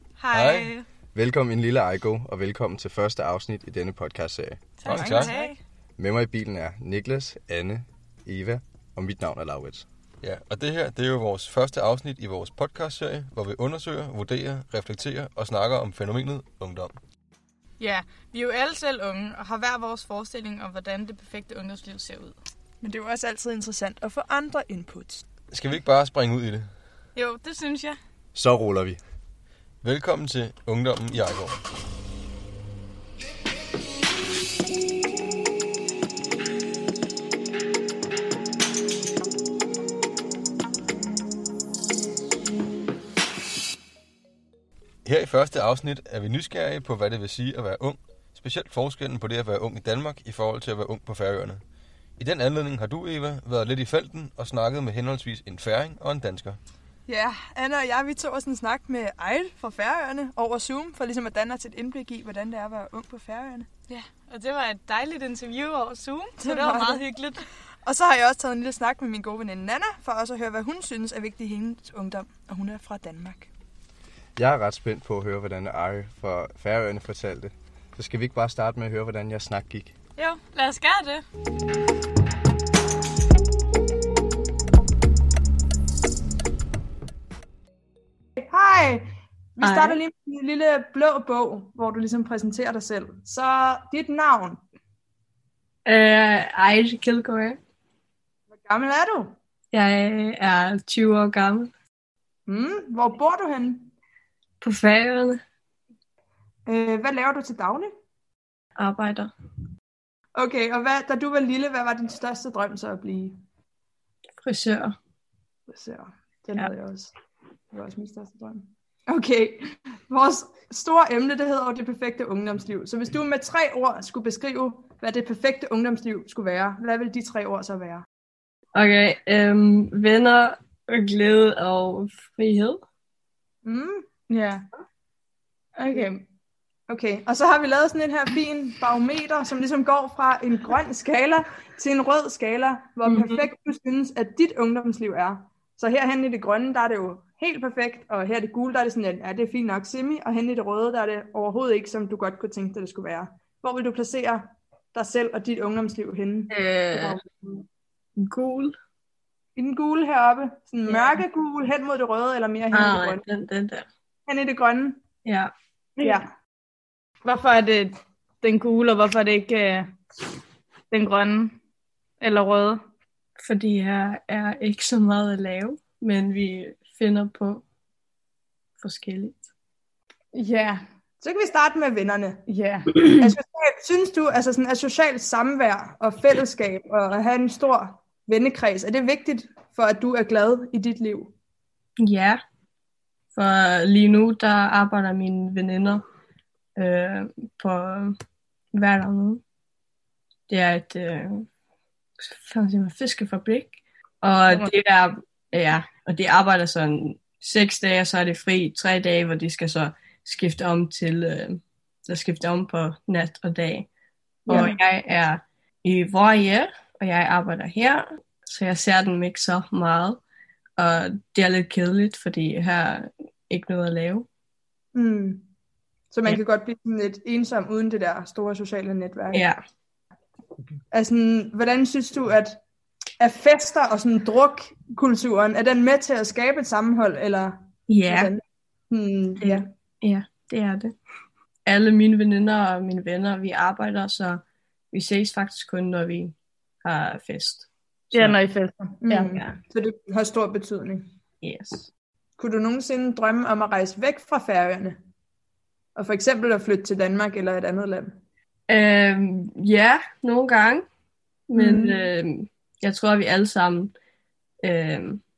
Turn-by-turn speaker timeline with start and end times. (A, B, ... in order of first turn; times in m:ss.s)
0:00.3-0:00.7 A
0:01.1-0:04.8 B
0:04.8-0:05.6 C
0:04.8-0:05.3 A
0:05.0-0:05.5 D
0:06.0-0:09.8 B
0:10.2-0:17.0 A
0:17.8-0:22.4 C
0:22.8-0:25.2 D
0:25.5-0:26.7 A
0:27.1-0:28.0 C
0:28.3-0:29.0 B
0:29.8-0:31.6 A
0:45.0-0:51.6 A
0:52.2-0:56.6 A
0:57.0-1:03.7 D
1:03.9-1:07.4 C
1:06.4-1:13.5 D
1:14.4-1:19.9 B
1:20.2-1:21.2 C
1:28.4-1:34.6 D
1:29.6-1:30.0 E
1:35.8-1:37.6 E
1:38.5-1:39.3 D
1:39.7-1:41.7 E
1:42.4-1:43.9 D
1:44.6-1:45.4 E
1:46.6-1:47.9 D
1:48.8-1:49.3 E
1:50.3-1:53.4 D
1:54.4-1:54.9 E
1:55.7-1:57.1 D
1:57.7-2:08.0 D
2:08.7-2:12.8 E
2:13.6-2:14.0 D
2:14.3-2:14.6 C
2:15.8-2:16.2 C
2:16.9-2:37.3 D
2:23.1-2:23.4 E
2:36.5-2:37.2 E
2:38.2-2:38.7 E
2:39.5-2:43.2 D
2:42.7-2:43.8 E
2:44.2-2:45.0 D
2:45.2-2:45.5 E
2:47.2-2:49.9 C
2:50.9-2:51.5 C
2:52.2-2:52.8 C
2:53.4-2:57.6 E
2:58.8-2:59.4 E
3:00.3-3:00.8 C
3:01.2-3:02.4 D
3:02.5-3:03.3 C
3:03.0-3:11.3 D
3:12.0-3:12.4 E
3:13.3-3:16.0 E
3:16.8-3:18.2 E
3:18.7-3:19.4 E
3:20.5-3:21.4 E
3:22.2-3:33.9 E
3:34.4-3:40.2 E
3:34.5-3:34.8 C
3:40.8-3:44.2 E
3:44.9-3:45.5 D
3:46.1-3:49.4 D
3:49.3-3:49.6 E
3:50.9-3:52.6 D
3:53.2-3:59.7 D
3:57.9-3:58.3 E
3:59.5-4:00.9 E
4:01.6-4:04.4 E
4:04.9-4:08.4 E
4:08.1-4:09.3 C
4:09.0-4:11.1 D
4:09.3-4:09.6 E
4:11.4-4:11.9 E
4:12.4-4:15.0 D
4:15.9-4:18.1 D
4:18.7-4:20.9 E
4:21.5-4:23.9 E
4:21.6-4:22.1 D
4:24.6-4:25.2 E